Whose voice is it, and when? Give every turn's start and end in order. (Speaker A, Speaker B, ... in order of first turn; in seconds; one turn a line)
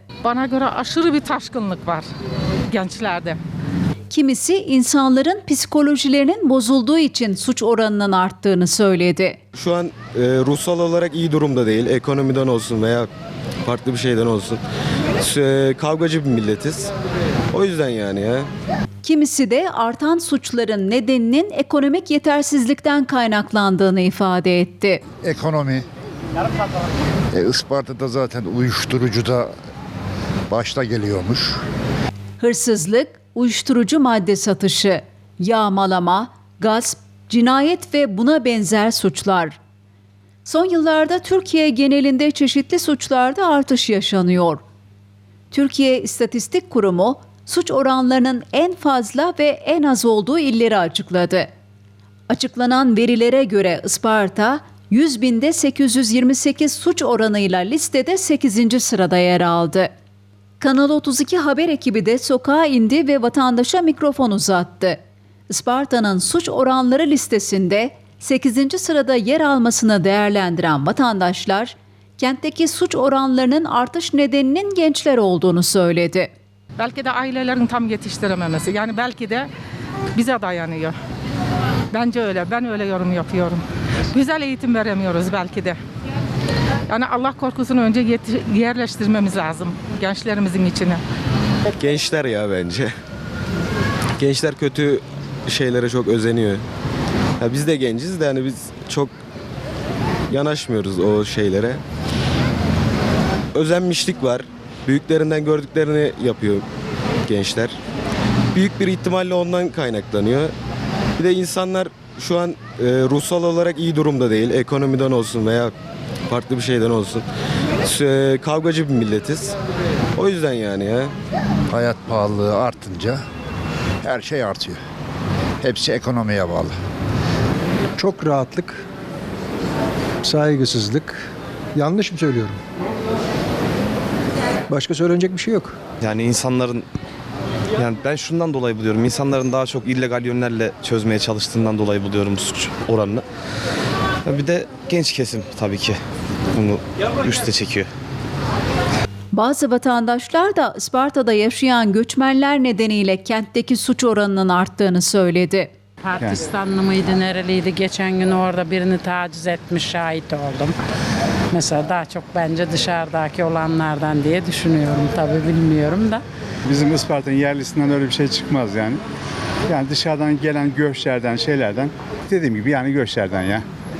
Speaker A: 0.2-2.0
Speaker A: 2.7-3.4
Speaker B: 4.1-9.4
Speaker C: 9.5-13.1
Speaker C: 13.7-14.6
Speaker C: 15.2-16.9
Speaker C: 17.5-18.5
Speaker B: 19.0-25.0
Speaker D: 25.2-25.9
Speaker D: 27.3-29.5
Speaker D: 30.5-31.6
Speaker B: 32.4-39.6
Speaker B: 40.5-44.6
Speaker B: 45.5-51.5
Speaker B: 52.3-59.9
Speaker B: 60.6-76.3
Speaker A: 76.8-79.5
Speaker A: 80.1-80.9
Speaker A: 81.9-85.8
Speaker A: 86.9-91.0
Speaker C: 91.8-92.9
Speaker C: 94.2-96.6
Speaker C: 97.4-99.1
Speaker C: 100.3-101.8
Speaker C: 103.5-106.7
Speaker C: 107.3-107.8
Speaker C: 108.5-110.5
Speaker C: 111.2-115.7
Speaker C: 116.3-117.2
Speaker C: 117.8-119.5
Speaker C: 120.2-121.1
Speaker D: 121.7-123.2
Speaker D: 124.0-124.8
Speaker D: 125.6-126.7
Speaker E: 128.0-128.8
Speaker E: 130.2-131.2
Speaker E: 131.8-132.6
Speaker E: 134.7-135.8
Speaker F: 136.0-136.9
Speaker F: 137.8-143.2
Speaker F: 144.2-146.0
Speaker F: 146.5-147.9
Speaker B: 149.3-155.7
Speaker G: 156.0-160.8
Speaker G: 161.5-166.2
Speaker H: 166.7-169.0
Speaker H: 169.7-173.6